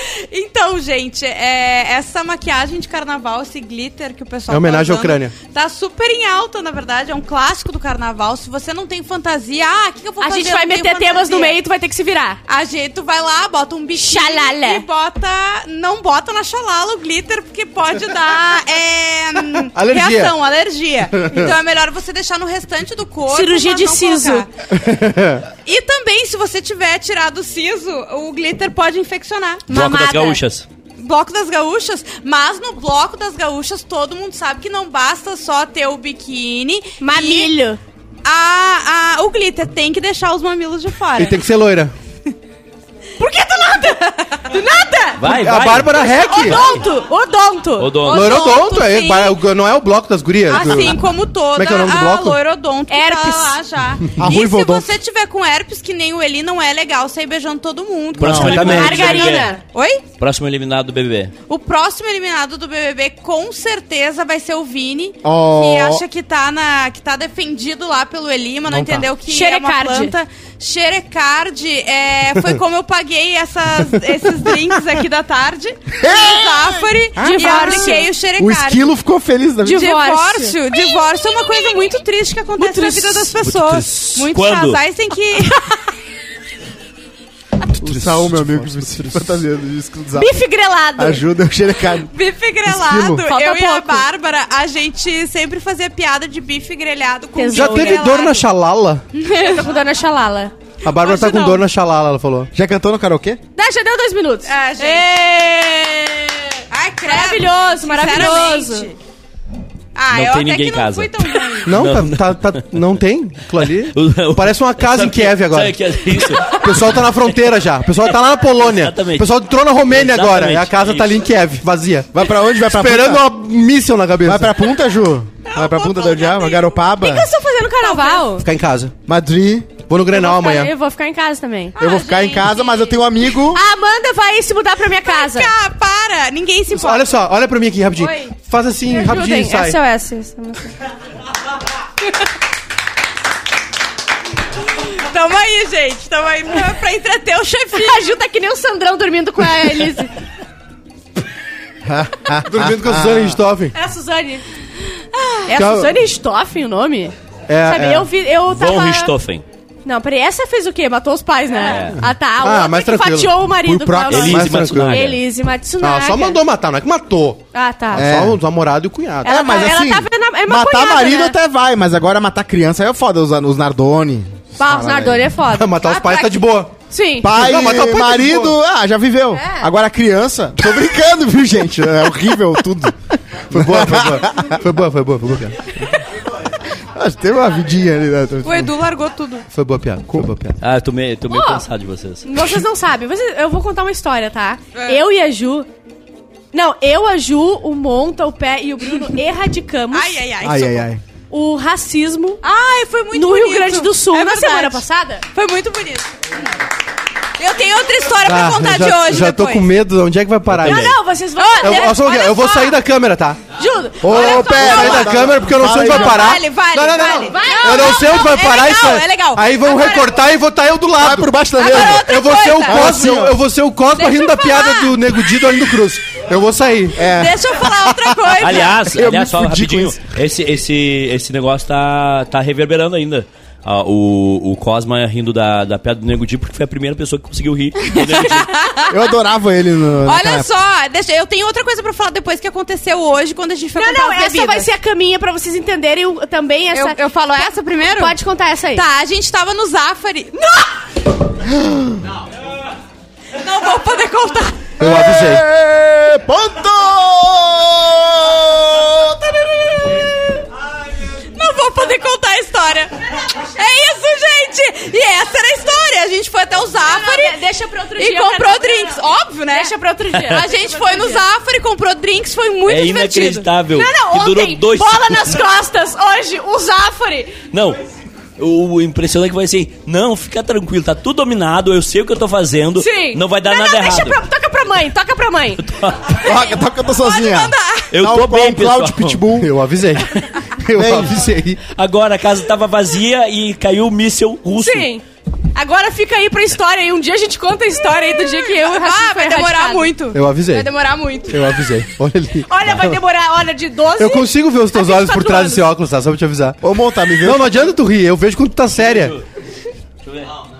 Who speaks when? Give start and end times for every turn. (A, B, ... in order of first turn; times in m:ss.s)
0:00.3-0:11.6 A
0:04.5-0:05.4 B
0:10.2-0:12.4 C
0:12.5-0:24.5 A
0:13.9-0:14.9 C
0:19.8-0:20.4 B
0:21.2-0:21.6 B
0:23.3-0:24.5 C
0:24.7-0:25.5 B
0:25.7-0:30.4 A
0:29.7-0:30.7 D
0:31.0-0:37.5 A
0:37.0-0:37.8 C
0:38.2-0:41.4 A
0:41.1-0:41.9 B
0:43.2-0:48.8 C
0:45.2-0:46.8 D
0:45.2-0:46.6 B
0:47.8-0:48.3 D
0:48.1-0:49.4 A
0:48.1-0:52.4 B
0:50.5-1:00.0 A
0:50.5-0:50.9 E
0:52.9-0:53.6 C
0:54.2-0:54.9 E
0:58.2-0:58.6 E
0:58.2-0:59.6 D
0:58.4-0:59.3 B
0:58.6-0:59.6 C
1:00.2-1:01.3 D
1:01.5-1:18.9 A
1:05.2-1:06.0 E
1:08.7-1:09.1 E
1:09.3-1:10.2 C
1:16.0-1:16.9 E
1:17.2-1:18.1 C
1:18.4-1:19.9 E
1:19.6-1:20.6 C
1:19.7-1:25.6 A
1:22.6-1:23.3 C
1:23.4-1:24.8 D
1:27.8-1:30.4 E
1:27.8-1:29.2 B
1:30.2-1:31.2 C
1:31.0-1:32.1 E
1:32.1-1:38.4 A
1:32.6-1:33.3 E
1:33.2-1:34.1 C
1:37.4-1:38.4 C
1:37.5-1:39.1 B
1:39.1-1:39.7 A
1:39.3-1:40.5 C
1:40.8-1:42.5 B
1:40.9-1:41.7 A
1:42.5-1:43.4 E
1:43.6-1:48.9 C
1:44.4-1:45.1 A
1:46.7-1:49.0 A
1:50.0-1:51.8 A
1:50.1-1:52.6 D
1:51.7-1:55.8 B
1:53.6-2:01.2 D
1:56.5-2:04.5 B
2:02.1-2:03.3 E
2:04.2-2:07.3 E
2:05.5-2:06.7 A
2:07.0-2:08.5 C
2:07.8-2:08.4 A
2:08.4-2:08.9 B
2:09.1-2:09.8 E
2:09.9-2:10.7 B
2:10.1-2:11.8 C
2:11.8-2:13.0 A
2:11.8-2:13.6 E
2:13.5-2:15.5 C
2:15.0-2:17.1 A
2:16.7-2:19.8 B
2:18.9-2:20.7 C
2:24.8-2:28.2 A
2:27.7-2:30.1 C
2:31.9-2:33.4 E
2:32.4-2:33.8 B
2:33.7-2:34.4 C
2:35.5-2:37.1 C
2:35.5-2:35.9 E
2:37.5-2:38.1 B
2:37.6-2:39.1 C
2:38.5-2:39.4 D
2:39.8-2:46.4 C
2:41.7-2:42.0 D
2:42.0-2:43.5 B
2:43.6-2:44.5 E
2:44.1-2:45.2 D
2:44.3-2:45.2 B
2:45.8-2:49.7 B
2:47.5-2:48.1 C
2:47.9-2:48.4 E
2:49.2-2:51.4 C
2:49.2-2:55.3 E
2:54.6-2:57.3 C
2:55.5-2:56.7 B
2:55.9-2:56.3 A
2:57.2-3:03.0 E
2:57.2-2:58.6 B
2:59.3-2:59.7 C
3:03.5-3:04.6 E
3:03.5-3:05.8 B
3:06.8-3:08.8 E
3:08.4-3:09.4 A
3:09.5-3:10.6 B
3:10.6-3:12.3 D
3:11.3-3:11.7 C
3:12.2-3:15.7 C
3:14.7-3:15.0 A
3:16.5-3:20.2 C
3:19.9-3:20.9 A
3:20.4-3:21.0 E
3:21.3-3:22.4 C
3:22.4-3:26.1 A
3:23.1-3:25.2 C
3:27.4-3:29.7 A
3:28.2-3:30.9 B
3:30.5-3:30.9 D
3:30.6-3:32.8 C
3:31.0-3:32.1 A
3:31.6-3:33.4 B
3:33.6-3:35.3 C
3:34.0-3:36.4 E
3:34.1-3:47.1 B
3:35.7-3:40.2 A
3:37.0-3:38.2 C
3:41.0-3:43.4 E
3:41.6-3:43.0 A
3:43.9-3:45.0 A
3:47.0-3:50.0 E
3:47.0-3:48.9 A
3:48.4-3:58.5 D
3:57.9-3:59.0 A
3:58.9-4:00.5 E
4:00.0-4:04.7 A
4:03.8-4:08.9 C
4:06.7-4:08.2 A
4:08.7-4:10.6 A
4:11.5-4:12.0 E
4:13.4-4:14.7 A
4:14.8-4:15.4 B
4:14.8-4:20.3 E
4:21.4-4:27.4 A
4:26.8-4:31.3 C
4:28.0-4:29.7 A
4:30.3-4:33.5 A
4:32.7-4:35.4 D
4:33.7-4:37.4 C
4:37.5-4:37.8 D
4:38.4-4:44.2 D
4:42.8-4:45.6 C
4:45.6-4:46.2 D
4:46.1-4:49.5 E
4:47.0-4:47.9 A
4:47.9-4:49.2 D
4:49.4-4:51.6 B
4:50.7-4:51.2 E
4:51.8-4:54.9 D
4:54.6-4:55.0 C
4:55.5-5:00.0 C
4:58.4-5:01.5 A
5:00.1-5:00.8 B
5:01.3-5:03.0 B
5:02.5-5:05.7 C
5:04.0-5:06.6 B
5:06.6-5:07.7 E
5:07.2-5:09.2 B
5:08.8-5:09.2 D